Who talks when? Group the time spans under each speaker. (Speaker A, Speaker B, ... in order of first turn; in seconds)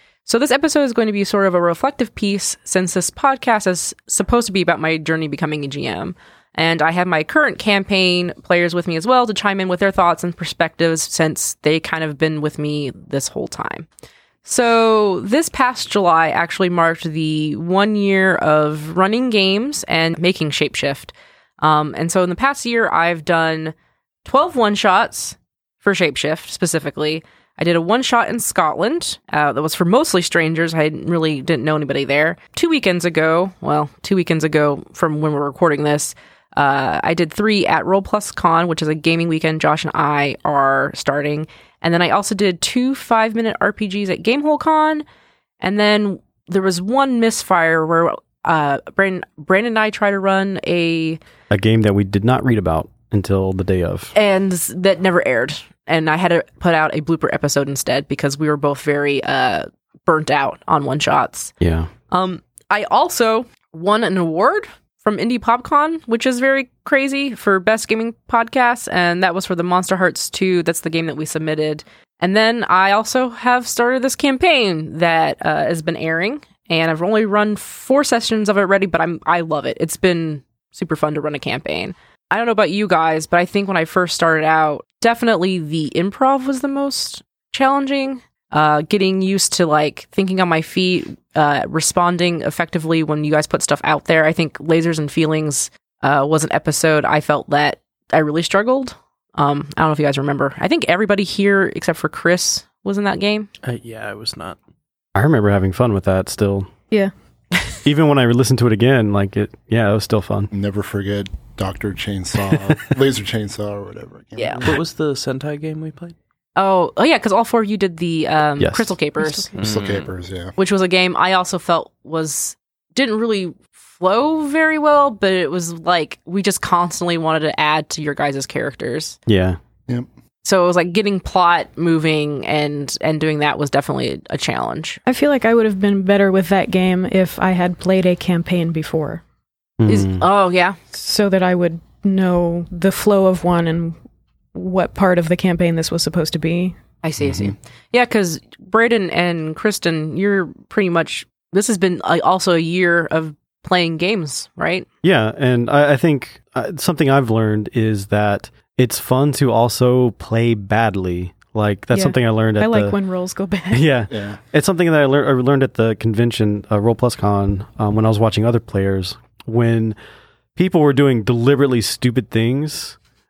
Speaker A: 0.2-13.9, 14.4-23.7, 24.2-45.0, 45.6-51.2, 54.1-61.5, 62.1-103.5, 114.4-114.7, 116.6-119.5, 120.6-129.2, 130.4-135.0, 139.8-140.8, 147.0-154.9
Speaker B: 51.5-54.1, 61.6-61.9, 105.2-106.7, 107.8-110.5, 112.5-112.8, 118.6-118.9, 129.3-129.6, 139.8-140.2, 155.0-163.0, 163.7-170.0, 170.6-173.0
Speaker C: 103.6-104.6, 114.6-116.2, 119.6-120.1
Speaker D: 110.5-114.8, 119.6-120.5, 147.2-147.5, 164.1-164.4
Speaker E: 119.2-119.5, 135.1-139.2, 140.9-144.0, 144.5-146.8, 161.9-163.9